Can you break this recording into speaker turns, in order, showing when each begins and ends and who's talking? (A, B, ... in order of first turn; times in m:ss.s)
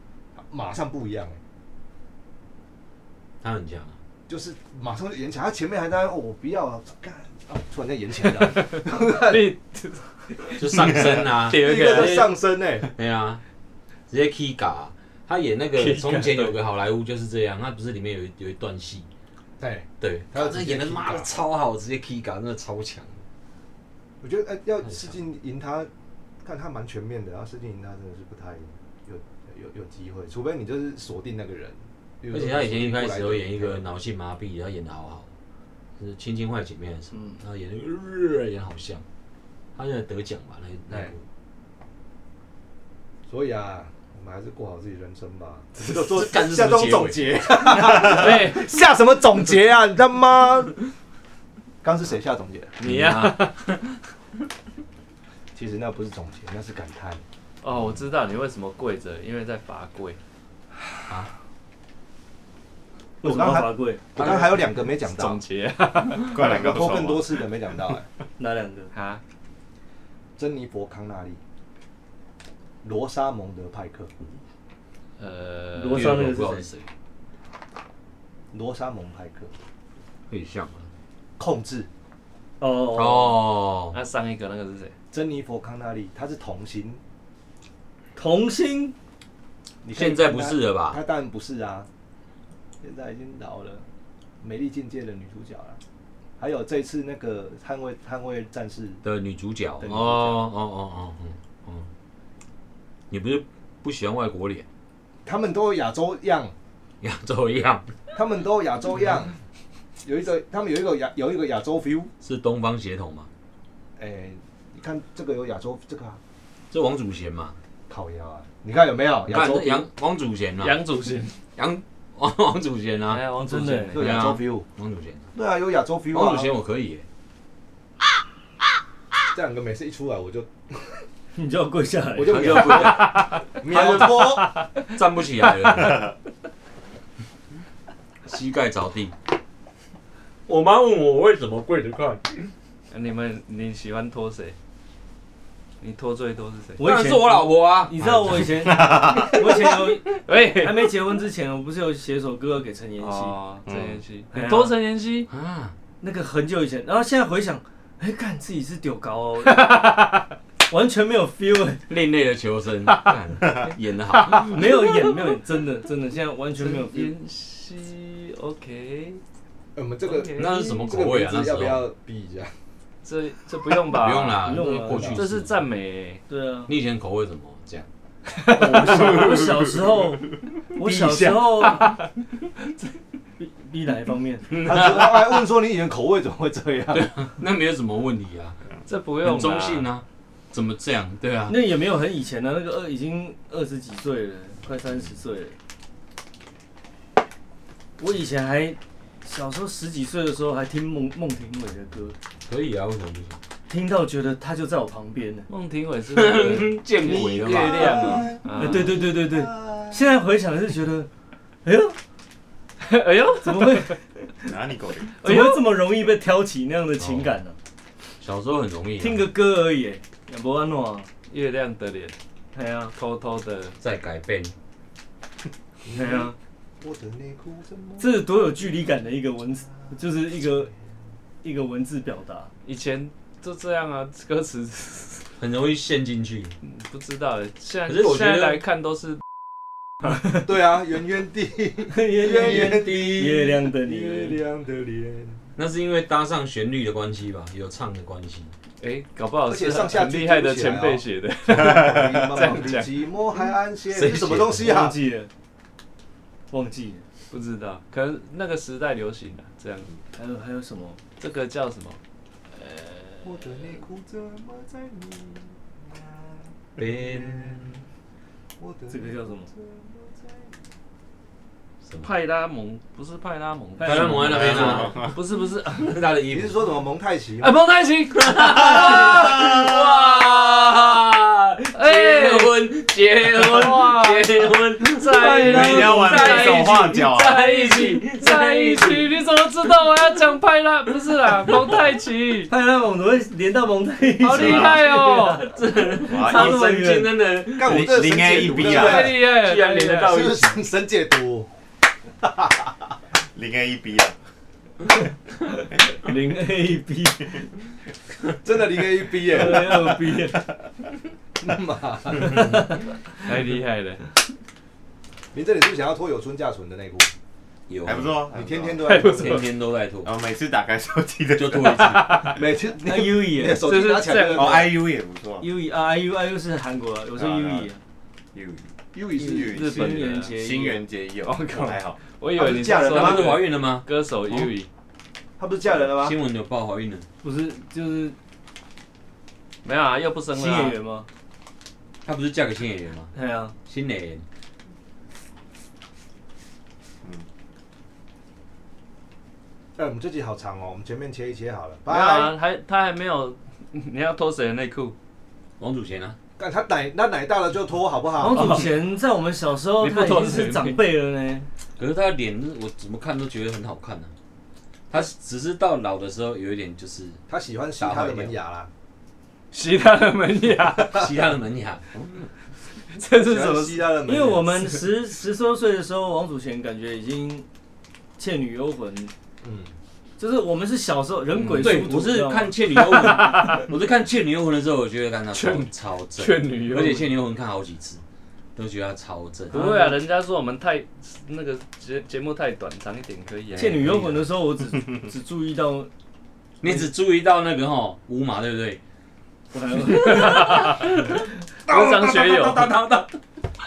0:00.4-0:01.4 A
0:03.4-0:04.0 B
0:04.3-0:09.5 A
0:08.4-0:12.2 C
0:10.6-0:13.4 B
0:11.5-0:12.9 A
0:14.1-0:19.1 B
0:15.7-0:16.5 C
0:19.6-0:21.3 A
0:20.0-0:23.2 B
0:24.2-0:25.9 A
0:24.8-0:25.2 B
0:26.4-0:33.8 A
0:32.3-0:35.3 B
0:36.0-0:39.0 B
0:39.8-0:41.2 B
0:43.3-0:50.9 A
0:45.9-0:48.0 B
0:48.0-0:48.6 C
0:51.8-0:52.8 A
0:52.8-0:53.6 C
0:52.8-0:53.7 B
0:55.5-0:57.2 A
0:57.6-1:00.2 C
1:03.2-1:04.4 D
1:03.2-1:05.4 A
1:04.2-1:04.5 B
1:05.0-1:06.4 C
1:06.2-1:07.5 E
1:06.4-1:08.1 A
1:08.4-1:08.9 D
1:08.9-1:09.2 C
1:10.4-1:11.4 A
1:12.8-1:14.1 A
1:15.2-1:16.4 C
1:15.8-1:16.7 D
1:15.9-1:16.7 B
1:18.5-1:19.5 A
1:20.3-1:20.9 B
1:21.4-1:21.9 A
1:22.6-1:23.4 D
1:22.9-1:24.0 B
1:23.9-1:24.9 C
1:25.1-1:27.0 A
1:28.2-1:28.9 D
1:29.8-1:31.9 A
1:29.9-1:31.0 B
1:32.8-1:33.8 A
1:34.4-1:35.8 A
1:36.4-1:39.0 A
1:39.0-1:41.9 B
1:39.8-1:40.4 A
1:43.1-1:44.6 B
1:45.2-1:46.5 A
1:47.0-1:47.9 B
1:48.1-1:49.3 A
1:50.0-1:52.1 A
1:52.2-1:53.3 B
1:54.0-1:56.2 A
1:56.7-1:57.6 B
1:57.9-1:59.8 A
1:59.3-2:00.8 B
2:00.6-2:01.4 C
2:01.6-2:03.2 B
2:03.1-2:04.3 C
2:03.4-2:04.0 D
2:03.9-2:04.6 A
2:03.9-2:05.3 B
2:05.3-2:06.5 A
2:06.1-2:07.0 B
2:09.3-2:11.0 A
2:11.4-2:12.9 D
2:12.2-2:14.5 A
2:12.2-2:16.1 B
2:12.9-2:13.4 C
2:18.2-2:19.1 B
2:20.5-2:22.5 B
2:22.9-2:24.6 C
2:25.8-2:26.8 C
2:26.8-2:33.4 D
2:26.8-2:28.7 B
2:28.6-2:29.4 E
2:29.3-2:30.9 C
2:33.0-2:35.3 C
2:34.3-2:34.7 D
2:35.3-2:35.7 B
2:36.0-2:39.8 D
2:39.5-2:40.2 C
2:40.7-2:41.8 D
2:41.9-2:44.7 B
2:42.9-2:43.5 C
2:44.3-2:47.1 D
2:44.3-2:44.8 C
2:46.6-2:49.2 C
2:49.7-2:52.5 A
2:50.0-2:50.8 C
2:50.3-2:51.8 B
2:53.0-2:54.4 C
2:53.9-2:55.6 B
2:54.4-2:55.2 D
2:55.1-2:56.2 C
2:56.3-2:56.7 D
2:56.7-2:57.9 B
2:58.4-2:59.1 C
2:58.5-3:01.9 D
2:58.8-2:59.7 E
3:00.8-3:01.8 A
3:01.6-3:02.0 C
3:03.4-3:04.6 D
3:04.5-3:05.4 B
3:04.5-3:07.2 A
3:06.9-3:08.6 B
3:08.9-3:09.9 C
3:09.2-3:11.6 B
3:11.5-3:15.5 D
3:18.0-3:22.2 D
3:22.5-3:23.4 B
3:23.7-3:25.5 D
3:25.5-3:29.0 C
3:26.1-3:28.3 B
3:27.0-3:30.0 A
3:28.6-3:31.1 D
3:31.6-3:32.0 D
3:32.8-3:34.0 C
3:33.4-3:34.0 D
3:34.4-3:35.2 E
3:35.2-3:35.6 C
3:35.2-3:37.5 D
3:37.0-3:37.4 B
3:38.2-3:39.3 B
3:39.0-3:41.1 D
3:41.3-3:42.1 C
3:42.5-3:42.9 D
3:42.9-3:43.8 C
3:43.8-3:44.5 B
3:45.8-3:48.1 A
3:45.9-3:46.3 D
3:48.0-3:50.7 D
3:51.4-3:52.5 D
3:52.6-3:55.2 C
3:55.4-3:56.5 B
3:56.6-3:59.2 C
3:57.9-3:58.6 B
4:00.4-4:05.4 A
4:01.9-4:04.4 D
4:05.6-4:08.5 B
4:08.8-4:13.0 C
4:09.5-4:15.0 A
4:13.9-4:14.8 B
4:14.5-4:15.3 D
4:16.5-4:17.0 D
4:17.3-4:19.9 C
4:20.2-4:21.0 D
4:21.2-4:22.0 C
4:22.6-4:23.4 C
4:23.2-4:27.8 A
4:26.8-4:27.8 B
4:28.6-4:30.5 A
4:28.9-4:29.5 D
4:31.8-4:32.1 B
4:32.0-4:36.0 C
4:33.8-4:34.9 D
4:33.8-4:35.0 B
4:34.3-4:35.1 E
4:35.7-4:36.6 B
4:36.3-4:37.6 A
4:37.4-4:39.5 C
4:38.1-4:49.1 B
4:38.8-4:39.6 E
4:41.7-4:42.5 C
4:43.2-4:52.5 C
4:45.1-4:46.2 D
4:45.4-4:47.4 E
4:51.4-4:51.8 B
4:52.5-4:55.4 D
4:54.2-4:55.4 C
4:54.3-4:54.8 E
4:54.4-5:00.6 B
4:56.0-4:57.1 D
4:56.0-4:56.6 E
4:57.6-4:59.2 A
4:57.6-4:59.1 E
4:58.6-5:00.2 C
5:00.0-5:01.5 A
5:02.2-5:02.7 A
5:03.3-5:04.1 E
5:06.0-5:07.5 D
5:08.4-5:09.9 A
5:09.1-5:10.5 D
5:11.4-5:12.7 A
5:13.1-5:14.0 C
5:15.3-5:17.1 A
5:17.7-5:18.2 B
5:17.8-5:19.0 E
5:18.3-5:19.4 A
5:18.8-5:19.4 C
5:19.0-5:20.1 B
5:20.0-5:22.4 E
5:21.4-5:22.4 B
5:21.6-5:22.4 C
5:22.4-5:24.8 A
5:22.8-5:23.7 D
5:23.6-5:24.7 C
5:24.3-5:25.5 E
5:25.4-5:27.8 D
5:27.2-5:27.7 E
5:28.3-5:32.0 E
5:29.0-5:29.4 A
5:29.1-5:30.8 D
5:29.5-5:30.3 C
5:31.2-5:34.7 C
5:32.3-5:33.4 A
5:32.9-5:33.8 B
5:35.4-5:36.2 A
5:35.7-5:37.0 B
5:37.2-5:38.1 D
5:39.6-5:40.8 C
5:40.3-5:41.1 D
5:42.0-5:43.1 B
5:43.1-5:43.5 D
5:43.6-5:44.2 B
5:49.8-5:52.3 A
5:51.9-5:54.9 C
5:55.6-5:56.2 B
5:56.4-5:58.6 A
5:58.2-6:01.5 D
5:58.4-5:58.6 C
5:59.8-6:00.8 C
6:01.8-6:04.1 B
6:04.9-6:07.2 B
6:07.3-6:08.7 A
6:07.8-6:08.4 B
6:09.5-6:11.1 C
6:10.8-6:12.0 B
6:12.9-6:13.9 C
6:13.1-6:14.6 A
6:14.0-6:17.4 D
6:18.2-6:19.1 D
6:19.4-6:19.7 A
6:20.2-6:22.5 D
6:21.3-6:21.8 C
6:21.6-6:28.0 B
6:22.7-6:23.7 C
6:25.3-6:27.1 C
6:28.6-6:29.6 B
6:29.5-6:34.3 C
6:29.5-6:30.0 D
6:33.6-6:35.9 D
6:36.6-6:38.8 B
6:39.5-6:40.8 D
6:39.9-6:42.7 C
6:40.4-6:40.8 B
6:41.7-6:42.8 A
6:42.5-6:43.1 B